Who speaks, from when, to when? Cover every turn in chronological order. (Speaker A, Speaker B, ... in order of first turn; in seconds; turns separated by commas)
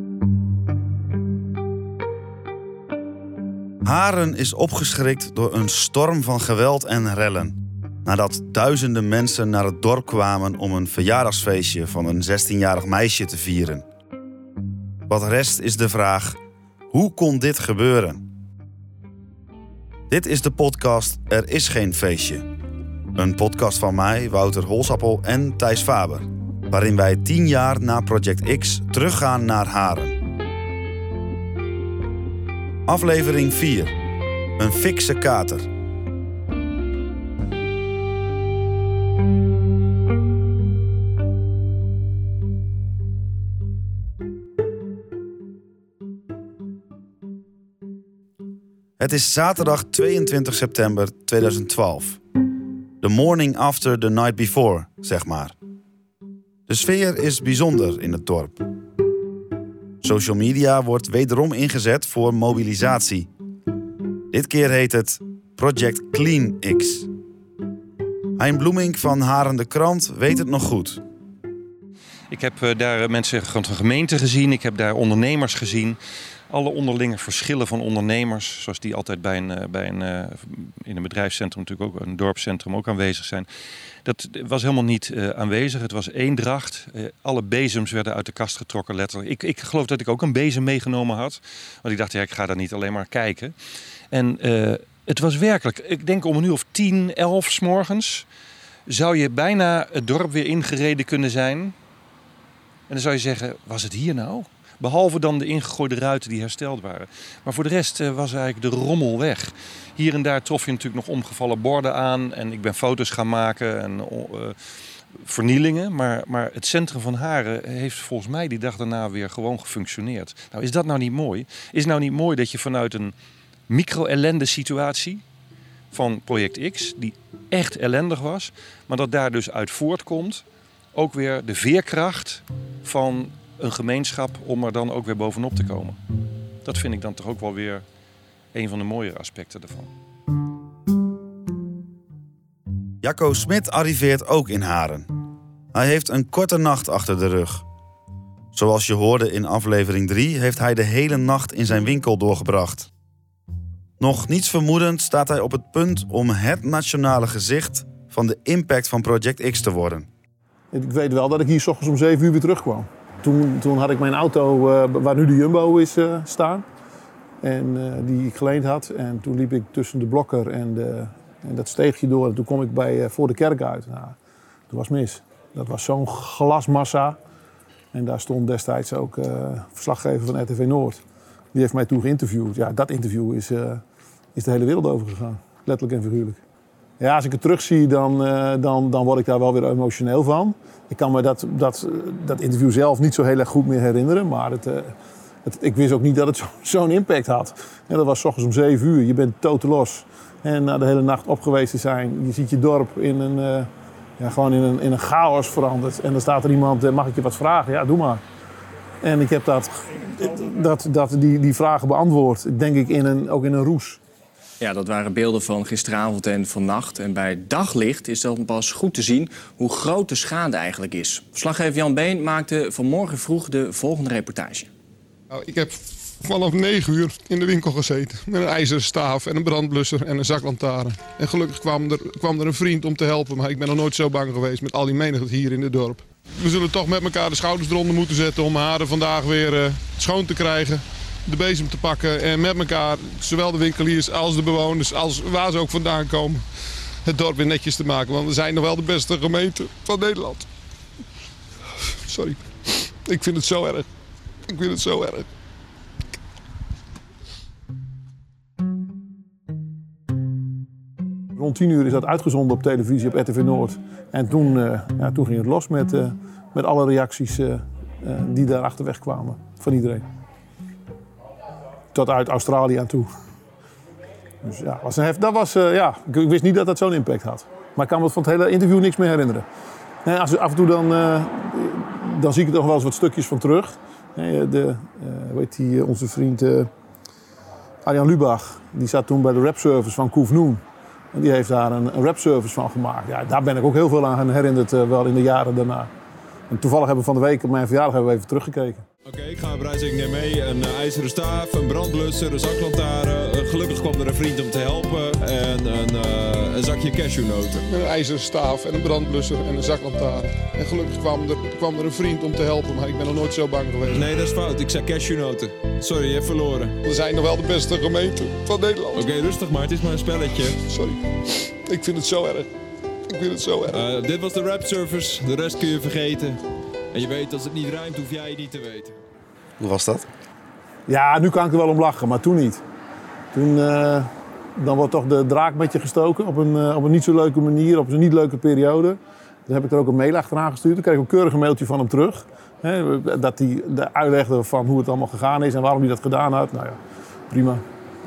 Speaker A: 3.8-13.8, Speaker A: 15.1-16.4, Speaker A: 16.9-18.3, Speaker A: 20.1-22.4, Speaker A: 23.1-30.2, Speaker A: 32.9-34.0, Speaker A: 34.6-35.7, Speaker A: 49.0-52.2, Speaker A: 53.0-55.5, Speaker A: 56.7-58.6, Speaker A: 60.0-63.3, Speaker A: 64.3-67.1, Speaker A: 68.4-71.0, Speaker B: 72.3-76.0, Speaker B: 76.5-83.5, Speaker B: 84.0-93.5, Speaker B: 94.1-98.3, Speaker B: 98.9-101.7, Speaker B: 102.9-123.1, Speaker B: 123.7-125.2, Speaker B: 125.9-130.4, Speaker B: 130.9-136.0, Speaker B: 136.6-137.8, Speaker B: 138.5-139.9, Speaker A: 143.0-145.1, Speaker A: 145.7-147.6, Speaker A: 148.5-152.9, Speaker A: 154.0-160.1, Speaker C: 160.7-166.7, Speaker C: 167.4-174.2, Speaker C: 174.7-177.2, Speaker C: 177.9-181.0, Speaker C: 181.5-183.8, Speaker C: 184.3-186.4, Speaker C: 187.0-208.2, Speaker C: 209.0-214.0, Speaker D: 214.6-224.7, Speaker E: 225.3-246.4, Speaker E: 247.1-250.5, Speaker E: 252.1-253.9, Speaker E: 254.5-255.3, Speaker C: 261.4-270.1, Speaker C: 271.9-273.1, Speaker C: 274.4-279.5, Speaker C: 280.1-286.7, Speaker C: 287.9-295.9, Speaker C: 296.5-298.8, Speaker F: 299.1-307.6, Speaker E: 307.7-314.1, Speaker F: 313.9-316.7, Speaker E: 316.8-319.1, Speaker F: 318.9-320.6, Speaker E: 320.6-322.5, Speaker E: 323.1-323.8, Speaker F: 323.7-326.4, Speaker F: 326.9-329.0, Speaker A: 329.6-330.1, Speaker C: 330.9-332.6, Speaker C: 333.3-347.6